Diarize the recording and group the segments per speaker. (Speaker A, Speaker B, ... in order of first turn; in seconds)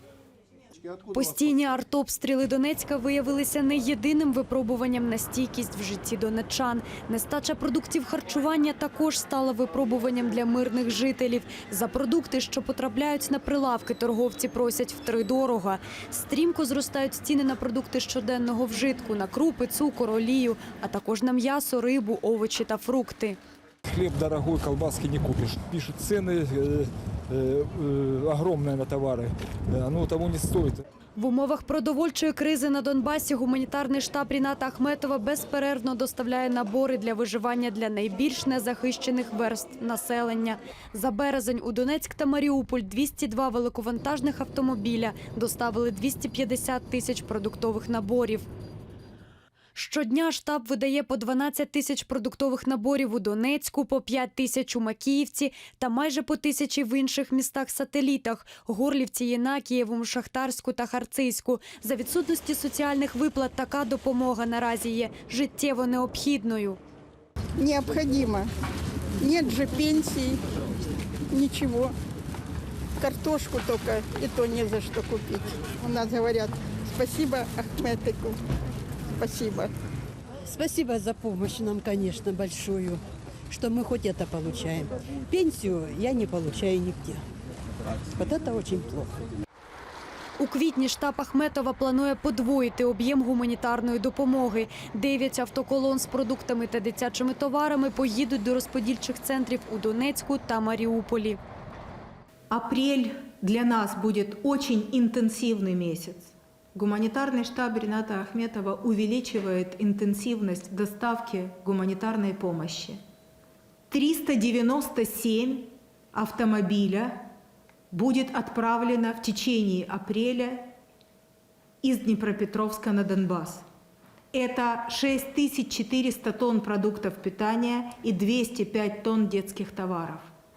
Speaker A: 1.1-23.4, 31.1-48.5, 49.7-66.8, 90.4-101.4
Speaker B: 23.9-30.8
Speaker C: 67.6-68.5, 69.2-70.4, 71.3-71.9, 73.0-78.4, 79.2-79.7
Speaker D: 80.5-87.2, 88.2-89.2
Speaker E: 102.5-113.0, 113.9-117.2, 117.9-120.7, 121.8-123.6, 124.3-130.3